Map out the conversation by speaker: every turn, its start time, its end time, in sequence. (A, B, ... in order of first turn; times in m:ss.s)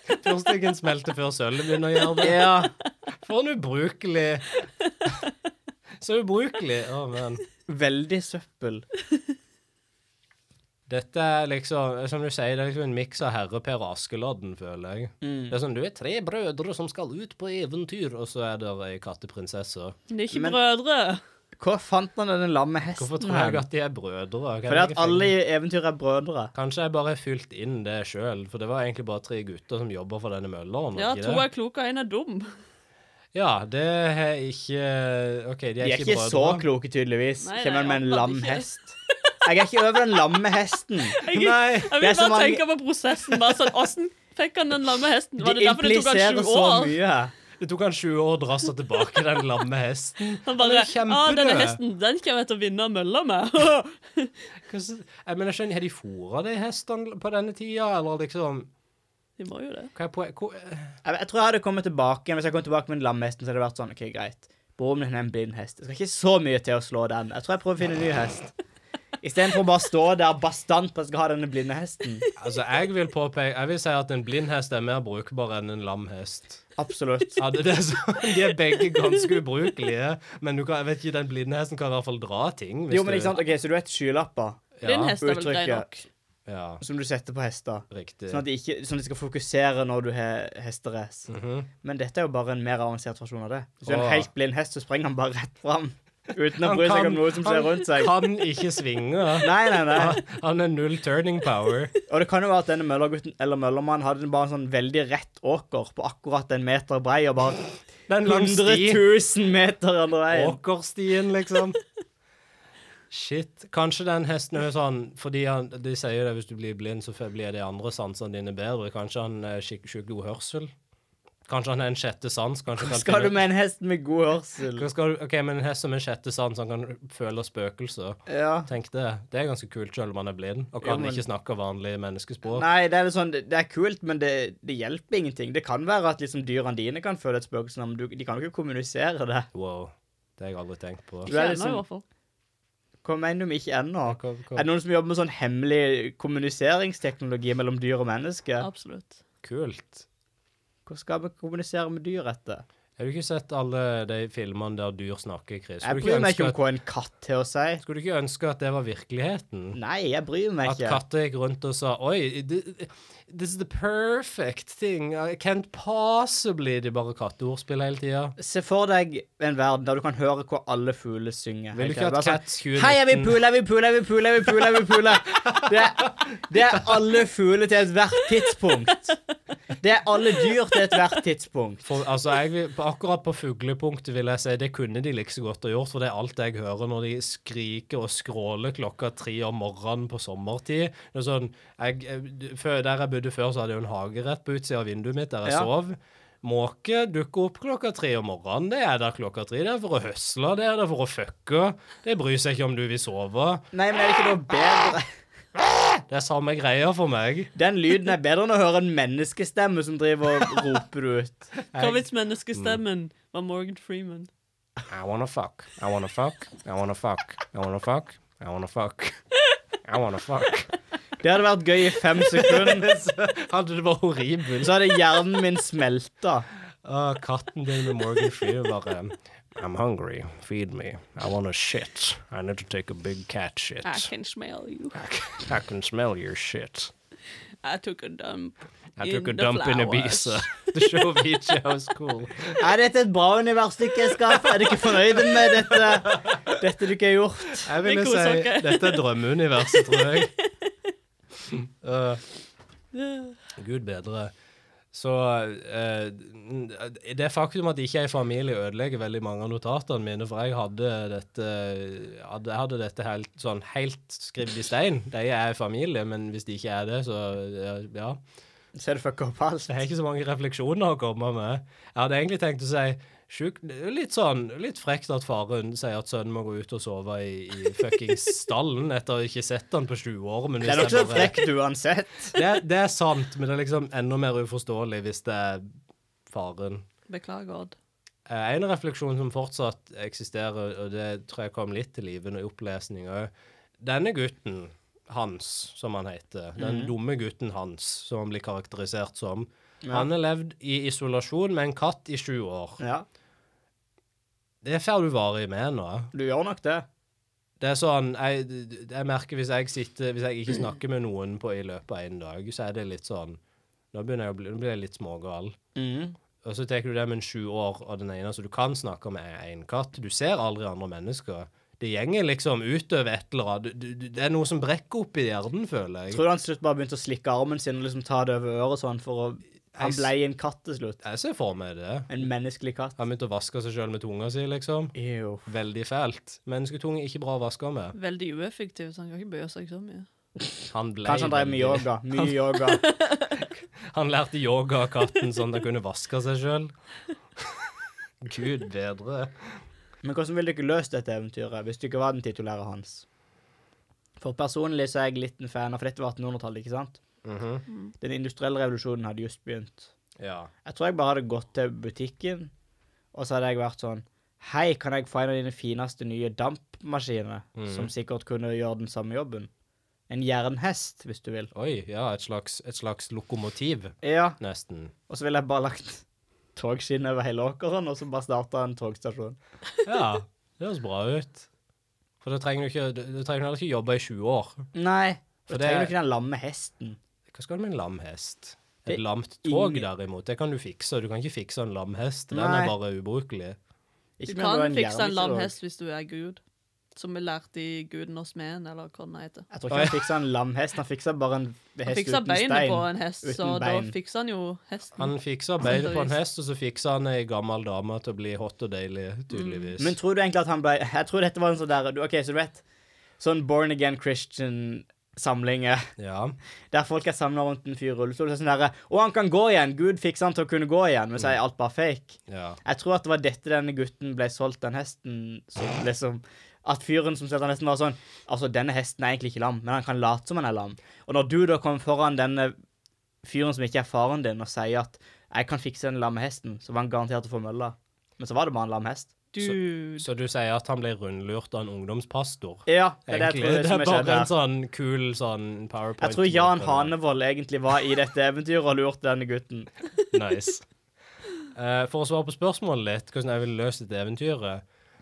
0:00.1-0:02.5 A
0:02.2-0:02.7 B
0:03.2-0:04.6 A
0:06.0-0:07.4 A
0:07.7-0:08.8 B
0:10.9-0:20.0 A
0:15.2-0:15.5 B
0:20.1-0:21.2 C
0:20.3-0:20.6 B
0:21.5-0:23.6 B
0:23.0-0:25.3 A
0:24.7-0:26.5 B
0:26.5-0:31.4 A
0:31.0-0:32.5 C
0:33.3-0:36.6 A
0:35.8-0:41.2 B
0:37.4-0:38.7 C
0:41.0-0:46.9 C
0:41.3-0:41.9 A
0:42.0-0:42.6 B
0:45.4-0:47.3 B
0:47.6-0:51.8 A
0:50.4-0:54.3 C
0:54.7-0:58.7 A
0:59.4-0:59.9 C
0:59.9-1:00.9 A
1:01.0-1:08.5 B
1:09.2-1:12.2 B
1:12.4-1:16.6 A
1:16.8-1:17.4 B
1:17.4-1:23.4 A
1:22.9-1:25.9 B
1:24.8-1:25.2 A
1:24.8-1:26.1 C
1:26.5-1:26.8 A
1:26.8-1:31.3 B
1:27.9-1:28.4 A
1:31.3-1:31.7 A
1:31.8-1:38.1 B
1:33.8-1:34.3 A
1:36.6-1:41.9 A
1:39.4-1:40.2 B
1:42.1-1:47.7 B
1:48.1-1:49.0 A
1:48.2-1:50.6 B
1:50.3-1:51.8 A
1:53.1-2:00.7 A
2:01.4-2:03.4 A
2:02.8-2:04.8 B
2:04.8-2:12.6 A
2:08.3-2:08.7 B
2:10.8-2:11.2 B
2:12.5-2:19.5 B
2:19.5-2:21.3 A
2:21.2-2:22.0 C
2:21.3-2:21.8 B
2:23.0-2:28.7 B
2:24.0-2:24.7 A
2:28.6-2:29.2 C
2:29.4-2:30.0 A
2:30.8-2:32.6 B
2:33.0-2:36.6 A
2:35.8-2:37.8 B
2:37.8-2:39.8 A
2:39.7-2:41.0 B
2:40.6-2:48.3 A
2:48.4-2:59.2 B
2:51.7-2:53.4 A
2:59.8-3:01.8 B
3:01.8-3:23.7 A
3:23.7-3:25.1 B
3:26.1-3:27.5 A
3:27.5-3:31.5 B
3:31.7-3:32.8 A
3:31.8-3:34.3 C
3:34.9-3:39.2 A
3:39.8-3:40.7 A
3:41.2-3:42.9 B
3:42.4-3:44.8 A
3:44.6-3:46.4 B
3:46.8-3:54.1 A
3:53.8-3:55.0 C
3:54.9-3:56.9 A
3:57.6-4:01.1 C
3:59.0-4:02.6 A
4:02.6-4:07.7 B
4:05.7-4:06.5 A
4:07.6-4:10.3 A
4:07.8-4:09.1 C
4:09.7-4:10.7 C
4:11.5-4:12.2 A
4:12.9-4:13.4 C
4:13.6-4:14.3 A
4:14.9-4:28.2 A
4:28.7-4:29.7 B
4:29.6-4:41.4 A
4:40.6-4:42.3 B
4:42.3-4:45.7 A
4:46.3-4:46.8 A
4:47.1-4:47.7 C
4:48.3-4:53.3 A
4:53.8-5:02.8 A
4:56.6-4:56.9 B
4:59.8-5:00.1 B
5:02.8-5:03.0 B
5:04.6-5:06.1 A
5:06.1-5:06.8 B
5:07.6-5:13.4 A
5:13.9-5:15.6 A
5:15.7-5:16.2 B
5:16.4-5:26.2 A
5:26.1-5:31.0 B
5:29.7-5:30.1 A
5:31.0-5:32.1 A
5:32.1-5:33.0 B
5:33.0-5:34.9 A
5:34.9-5:35.4 B
5:35.4-5:37.9 A
5:37.9-5:40.0 C
5:40.7-5:41.9 A
5:41.0-5:42.8 B
5:42.7-5:43.4 C
5:43.9-5:46.7 A
5:48.2-5:49.3 A
5:50.0-5:53.0 B
5:54.2-5:57.0 B
5:57.2-5:57.6 A
5:58.0-5:59.9 B
6:00.2-6:00.5 A
6:00.6-6:02.5 B
6:03.1-6:09.5 B
6:07.6-6:07.9 A
6:10.1-6:11.5 B
6:11.5-6:14.9 A
6:14.0-6:14.4 B
6:15.1-6:16.0 B
6:16.6-6:19.4 B
6:19.8-6:21.5 A
6:22.2-6:24.7 A
6:24.7-6:27.0 B
6:25.5-6:25.9 A
6:27.3-6:33.6 A
6:28.9-6:29.8 B
6:32.3-6:32.7 B
6:34.2-6:35.5 B
6:34.2-6:36.4 C
6:37.0-6:39.5 C
6:39.5-6:43.9 B
6:39.7-6:40.0 A
6:41.8-6:46.2 C
6:45.0-6:50.0 A
6:49.3-6:49.7 C
6:49.8-6:52.6 B
6:53.2-6:55.9 B
6:56.0-6:56.4 A
6:56.7-7:12.5 B
7:02.3-7:02.6 A
7:13.2-7:19.1 B
7:19.3-7:20.0 C
7:19.4-7:26.9 A
7:22.7-7:24.3 B
7:26.0-7:29.7 B
7:30.1-7:30.6 A
7:31.5-7:34.6 A